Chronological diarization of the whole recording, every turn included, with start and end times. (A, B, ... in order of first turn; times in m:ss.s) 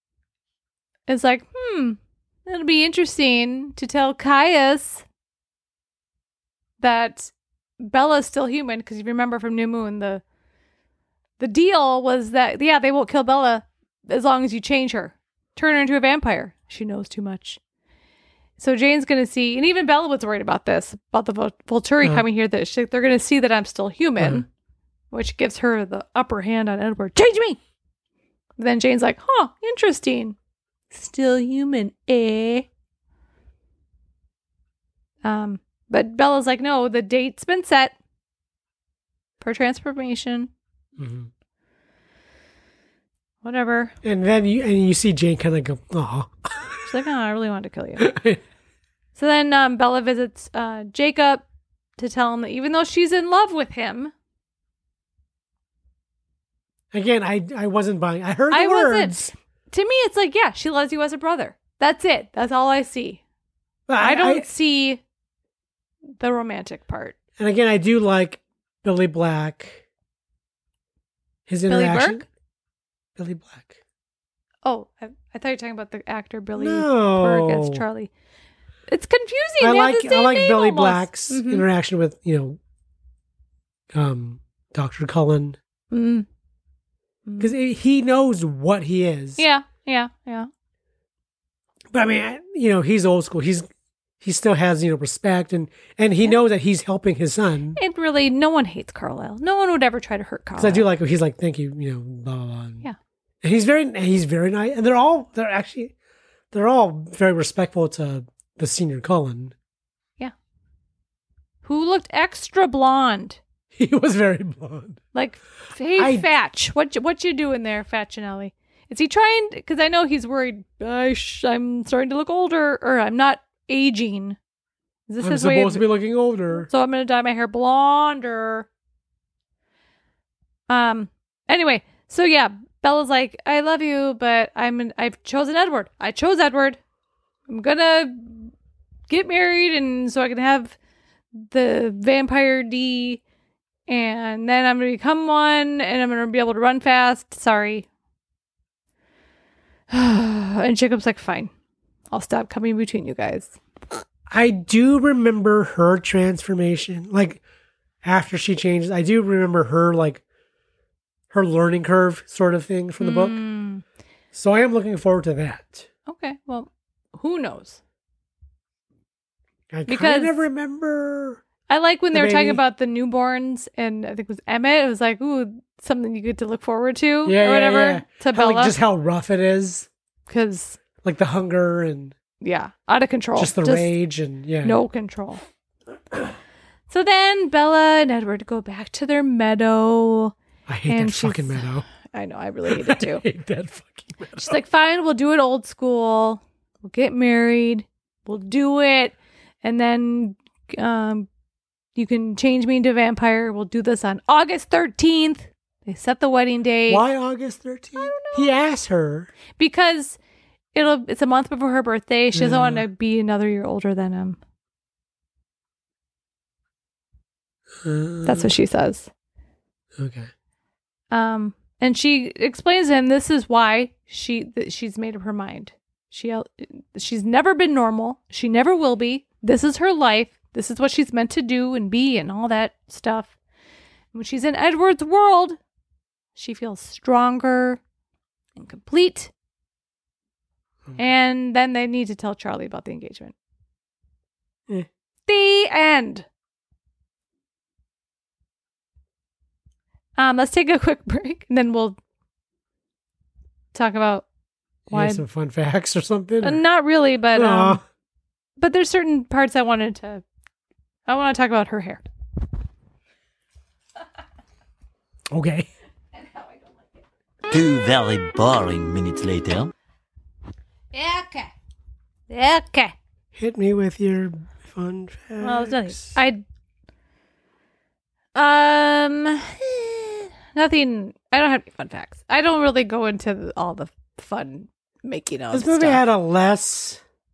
0:01.1-0:05.0 A
0:06.8-0:10.2 A
0:11.4-0:17.6 A
0:18.6-0:24.5 A
0:24.2-0:24.4 B
0:25.1-0:27.6 A
0:28.6-0:30.4 A
0:30.9-0:32.7 A
0:35.2-0:37.9 A
0:39.4-0:40.5 A
0:41.0-0:41.3 B
0:43.4-0:43.9 A
0:44.0-0:46.9 B
0:46.8-0:48.2 A
0:48.0-0:48.4 B
0:49.2-0:51.4 A
0:52.0-0:54.1 A
0:56.9-0:59.3 B
0:58.5-1:03.2 A
1:03.9-1:04.5 B
1:04.0-1:05.0 A
1:06.2-1:07.1 A
1:07.4-1:09.8 B
1:11.5-1:12.2 B
1:11.7-1:12.2 A
1:13.2-1:13.8 B
1:14.6-1:18.1 A
1:16.6-1:17.8 B
1:18.9-1:21.7 A
1:19.6-1:22.6 B
1:23.9-1:25.6 B
1:25.9-1:26.2 A
1:27.2-1:27.5 A
1:27.4-1:29.4 B
1:29.4-1:30.5 A
1:31.9-1:33.7 B
1:34.2-1:37.8 B
1:37.8-1:40.8 A
1:40.6-1:42.8 B
1:43.4-1:45.9 B
1:46.5-1:49.5 B
1:51.6-1:53.4 A
1:53.7-1:55.0 B
1:55.1-2:04.4 A
1:56.0-1:56.3 B
2:05.1-2:05.9 A
2:05.2-2:06.7 B
2:06.5-2:08.7 A
2:10.7-2:16.8 A
2:17.5-2:18.5 A
2:19.1-2:20.8 A
2:21.3-2:23.2 A
2:23.9-2:27.8 A
2:29.9-2:31.5 A
2:32.1-2:33.5 A
2:34.3-2:37.4 B
2:38.0-2:40.2 B
2:41.3-2:43.4 B
2:43.0-2:43.8 A
2:44.3-2:45.9 B
2:46.1-2:47.8 A
2:49.7-2:51.4 B
2:49.9-2:50.4 A
2:51.7-2:58.8 A
2:52.1-2:52.6 B
2:57.2-2:59.9 B
3:00.3-3:00.8 A
3:01.0-3:02.1 B
3:02.4-3:03.9 A
3:03.4-3:04.8 B
3:04.6-3:05.4 A
3:06.9-3:10.3 A
3:10.7-3:11.8 B
3:10.9-3:13.2 A
3:12.7-3:14.6 B
3:14.4-3:21.3 A
3:21.9-3:27.0 A
3:26.9-3:29.3 B
3:28.0-3:28.5 A
3:29.6-3:30.2 A
3:30.7-3:34.4 A
3:32.3-3:32.8 B
3:37.8-3:38.5 B
3:38.2-3:39.1 A
3:40.0-3:40.3 B
3:41.1-3:53.3 A
3:54.1-3:55.6 A
3:56.3-3:57.8 A
3:58.6-3:59.3 A
4:01.0-4:03.3 A
4:05.3-4:06.2 A
4:10.2-4:12.0 A
4:13.7-4:14.2 A
4:14.9-4:16.6 B
4:14.9-4:15.2 A
4:16.4-4:17.8 A
4:17.3-4:17.8 B
4:18.6-4:20.2 A
4:21.1-4:22.0 A
4:25.3-4:25.7 B
4:26.1-4:27.0 A
4:27.5-4:29.7 C
4:30.9-4:31.5 A
4:32.3-4:32.9 A
4:33.3-4:36.2 B
4:35.4-4:36.4 A
4:38.3-4:46.0 A
4:45.5-4:47.0 B